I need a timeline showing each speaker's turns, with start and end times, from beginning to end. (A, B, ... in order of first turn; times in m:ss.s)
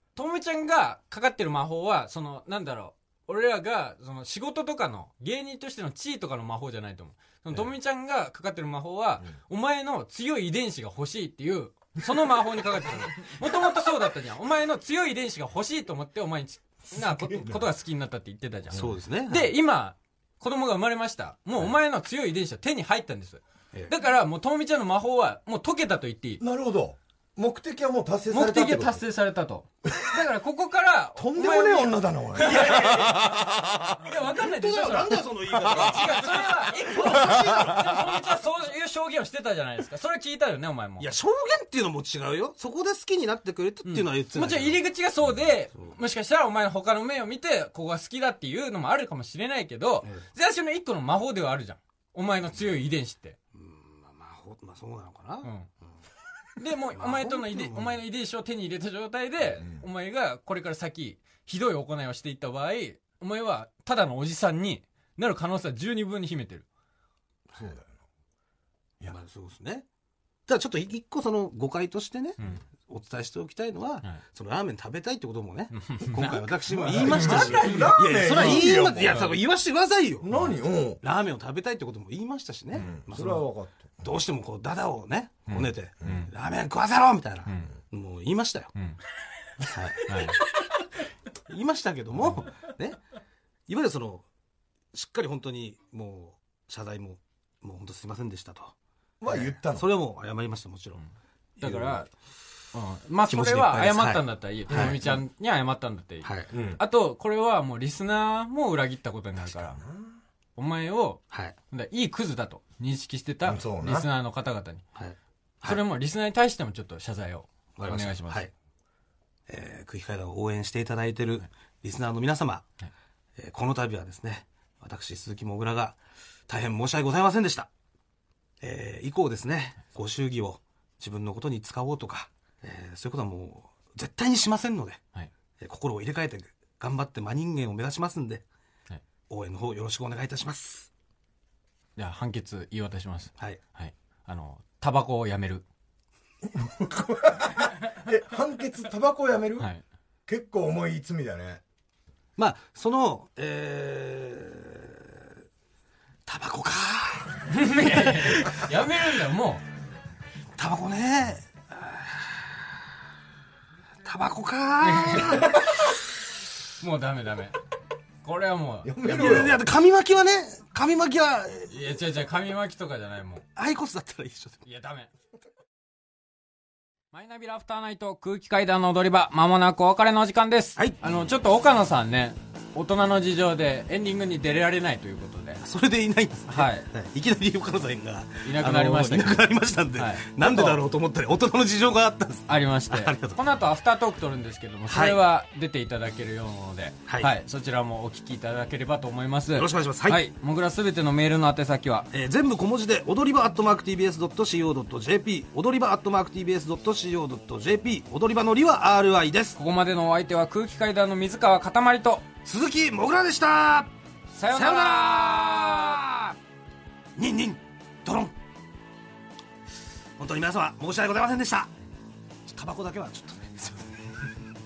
0:00.2-0:26.4 A
0:16.9-0:17.6 B
0:18.7-0:19.5 C
0:26.4-0:29.0 B
0:28.3-0:33.3 A
0:31.2-0:33.9 B
0:34.0-0:41.1 A
0:34.3-0:37.9 C
0:37.0-0:38.0 B
0:41.0-0:44.8 C
0:43.8-0:53.4 A
0:53.5-0:55.5 C
0:55.4-0:55.7 A
0:56.6-1:06.6 A
0:56.9-0:58.0 C
1:07.5-1:07.9 B
1:09.1-1:09.8 C
1:10.5-1:20.3 C
1:15.7-1:18.0 A
1:16.8-1:19.2 B
1:20.2-1:21.0 B
1:21.0-1:28.7 C
1:22.8-1:24.1 B
1:25.5-1:26.3 A
1:27.5-1:27.7 A
1:29.7-1:30.4 C
1:29.9-1:30.4 A
1:31.5-1:33.0 C
1:33.7-1:34.2 C
1:34.9-1:38.7 C
1:39.2-1:39.9 B
1:39.3-1:41.0 C
1:41.6-1:42.0 C
1:41.6-1:42.1 A
1:42.7-1:49.8 A
1:43.3-1:45.2 C
1:46.2-1:46.5 C
1:46.5-1:46.8 B
1:49.6-1:50.2 B
1:50.6-1:54.8 A
1:51.3-1:51.6 C
1:53.4-1:54.0 B
1:54.9-1:55.8 C
1:55.6-1:58.5 A
1:57.8-1:58.5 C
1:59.5-2:02.6 C
2:03.4-2:07.7 C
2:08.6-2:15.0 C
2:15.6-2:18.4 C
2:19.3-2:20.9 C
2:22.0-2:25.6 A
2:26.5-2:29.7 B
2:29.6-2:29.8 A
2:30.3-2:31.6 B
2:32.4-2:35.3 C
2:36.2-2:38.5 C
2:37.5-2:39.6 A
2:40.6-2:42.7 C
2:44.0-2:45.6 C
2:44.8-2:45.6 A
2:46.8-2:47.6 A
2:48.2-2:49.6 A
2:48.8-2:49.6 B
2:49.1-2:52.0 C
2:51.7-2:53.4 A
2:53.6-2:54.6 C
2:54.6-2:55.1 A
2:57.1-3:05.6 A
3:05.6-3:13.4 C
3:06.5-3:06.9 A
3:08.4-3:10.8 A
3:12.5-3:22.1 A
3:14.9-3:15.2 C
3:19.5-3:20.2 C
3:22.1-3:29.6 C
3:29.6-3:32.2 A
3:32.4-3:33.9 C
3:34.3-3:36.0 A
3:34.5-3:36.4 C
3:37.2-3:38.3 C
3:40.2-3:41.7 C
3:42.5-3:44.0 C